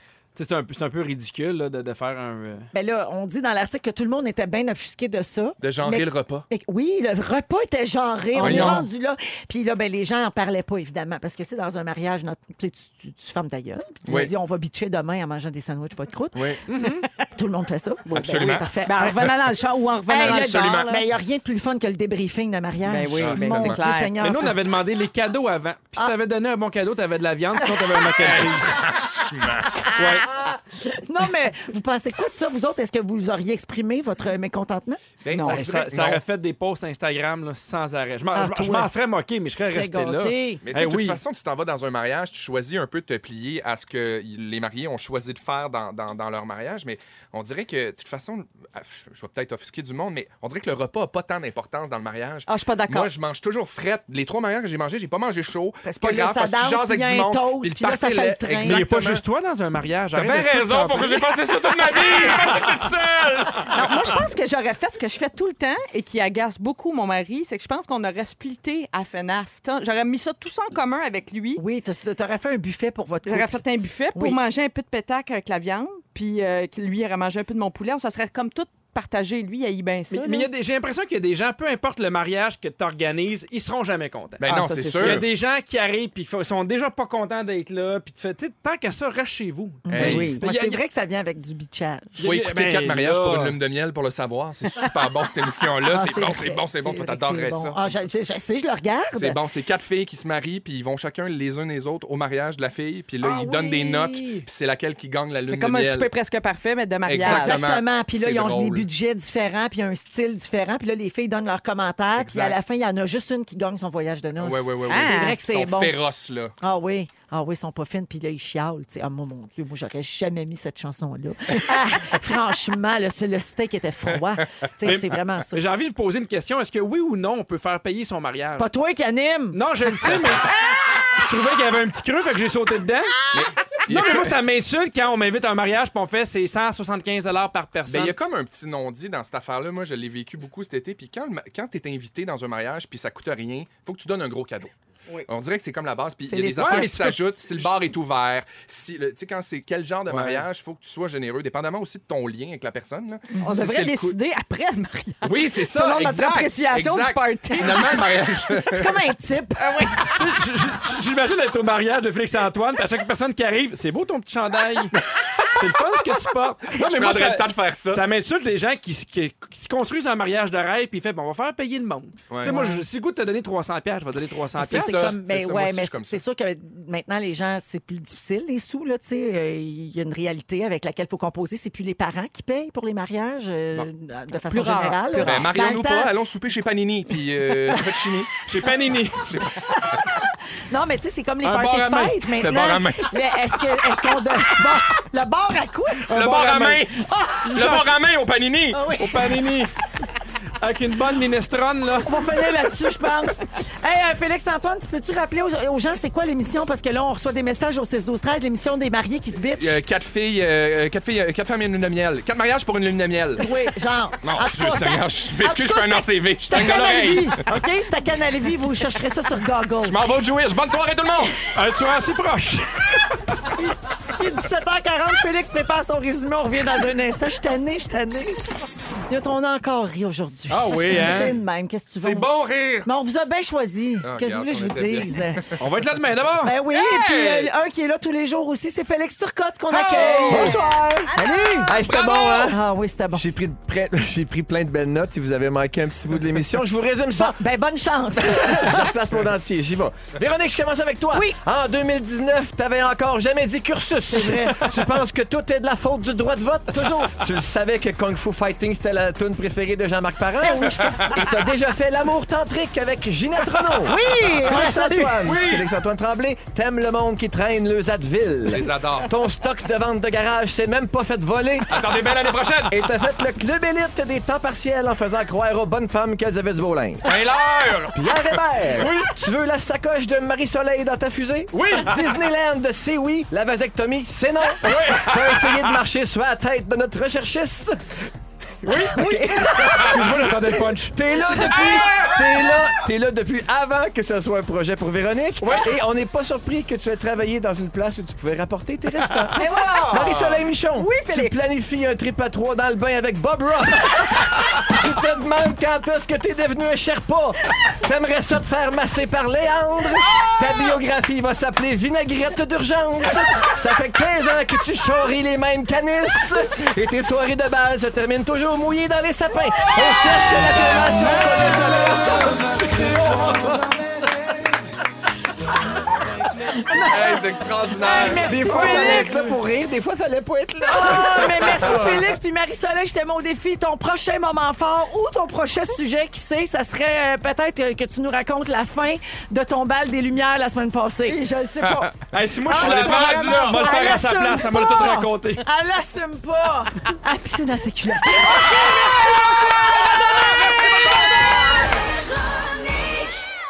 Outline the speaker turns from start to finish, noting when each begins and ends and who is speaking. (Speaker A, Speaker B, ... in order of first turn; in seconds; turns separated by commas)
Speaker A: 0.3-2.7, Speaker B: 2.7-16.6, Speaker C: 5.6-6.5, Speaker D: 8.3-8.7, Speaker C: 8.4-8.8, Speaker A: 8.4-8.8, Speaker C: 14.1-14.3, Speaker C: 16.3-16.6, Speaker A: 16.7-17.1, Speaker B: 17.3-19.3, Speaker D: 18.1-21.0, Speaker C: 18.1-18.7, Speaker B: 20.1-24.6, Speaker C: 20.2-20.9, Speaker D: 22.8-24.1, Speaker C: 23.1-23.8, Speaker A: 24.2-28.8, Speaker C: 28.2-29.9, Speaker A: 29.9-30.3, Speaker B: 29.9-35.0, Speaker C: 35.2-36.2, Speaker D: 35.3-35.6, Speaker A: 35.5-41.2, Speaker B: 38.3-38.9, Speaker B: 39.6-40.6, Speaker C: 40.6-59.2, Speaker D: 52.5-53.1, Speaker B: 55.8-58.8, Speaker A: 58.6-62.3, Speaker C: 60.1-64.2, Speaker D: 63.7-71.6, Speaker B: 71.6-73.6, Speaker D: 73.2-80.5, Speaker A: 80.1-90.8, Speaker C: 84.4-85.2, Speaker D: 84.5-85.2, Speaker B: 89.8-92.2, Speaker C: 89.9-90.3, Speaker D: 89.9-90.4, Speaker A: 92.2-93.6, Speaker C: 92.2-98.1, Speaker B: 95.8-99.4, Speaker C: 99.1-106.1, Speaker B: 103.2-104.5, Speaker D: 105.5-107.6, Speaker C: 107.0-108.9, Speaker B: 107.2-116.0, Speaker C: 112.2-112.6, Speaker C: 114.4-116.5, Speaker D: 114.8-115.3, Speaker B: 116.6-125.6, Speaker A: 124.8-128.7, Speaker B: 128.6-129.6, Speaker A: 129.5-133.2, Speaker C: 130.0-130.4, Speaker C: 133.3-134.4, Speaker A: 133.8-138.2, Speaker C: 137.9-144.7, Speaker C: 145.3-154.2, Speaker A: 146.3-147.8, Speaker B: 146.5-146.8, Speaker A: 150.1-150.4, Speaker D: 153.4-158.1, Speaker C: 155.2-158.9, Speaker B: 158.5-160.0, Speaker A: 159.9-175.2, Speaker C: 166.7-168.0, Speaker B: 172.4-172.8, Speaker B: 174.6-186.1, Speaker C: 174.7-176.2, Speaker D: 184.5-185.5, Speaker C: 185.2-188.3, Speaker B: 187.4-188.1, Speaker A: 188.4-189.5, Speaker C: 189.3-190.0, Speaker B: 190.7-196.1, Speaker A: 191.4-192.3, Speaker C: 192.4-193.2, Speaker A: 196.1-196.8, Speaker C: 196.1-197.0, Speaker B: 196.9-197.4, Speaker A: 197.4-197.9, Speaker C: 197.5-198.8, Speaker B: 198.7-199.4, Speaker A: 198.9-199.7, Speaker A: 200.6-202.2, Speaker B: 202.0-209.8, Speaker C: 209.6-213.5, Speaker B: 213.4-220.0, Speaker C: 214.2-217.4, Speaker C: 219.8-221.4, Speaker A: 221.5-223.4, Speaker B: 223.5-228.4, Speaker B: 229.1-232.3, Speaker A: 230.5-231.3, Speaker C: 232.0-232.9, Speaker B: 232.8-235.5, Speaker C: 234.0-235.5, Speaker A: 235.6-236.6, Speaker B: 236.4-243.2, Speaker C: 236.7-237.5, Speaker C: 239.7-240.6, Speaker E: 239.8-242.6, Speaker D: 240.3-241.7, Speaker C: 241.8-242.5, Speaker E: 243.1-247.3, Speaker B: 247.1-248.9, Speaker E: 248.2-271.8, Speaker B: 251.1-251.4, Speaker B: 254.1-254.7, Speaker B: 260.4-261.2, Speaker C: 261.0-261.2, Speaker B: 263.8-265.4, Speaker C: 265.2-265.7, Speaker C: 268.5-269.1, Speaker C: 271.7-272.8, Speaker E: 272.7-277.1, Speaker C: 277.0-278.2, Speaker E: 277.9-287.8, Speaker A: 281.5-281.9, Speaker C: 284.6-285.6, Speaker A: 288.6-290.9, Speaker E: 288.9-290.3, Speaker B: 288.9-290.1, Speaker C: 289.6-290.2, Speaker E: 290.9-323.7, Speaker C: 291.6-292.1, Speaker B: 299.4-299.8, Speaker C: 299.4-300.4, Speaker D: 300.7-301.4, Speaker B: 326.4-329.2, Speaker C: 326.8-329.2, Speaker E: 328.1-331.9, Speaker B: 330.7-341.9, Speaker C: 331.5-331.9, Speaker D: 341.1-341.5, Speaker C: 341.6-341.9, Speaker A: 342.1-345.4, Speaker B: 342.4-353.0, Speaker C: 342.5-343.8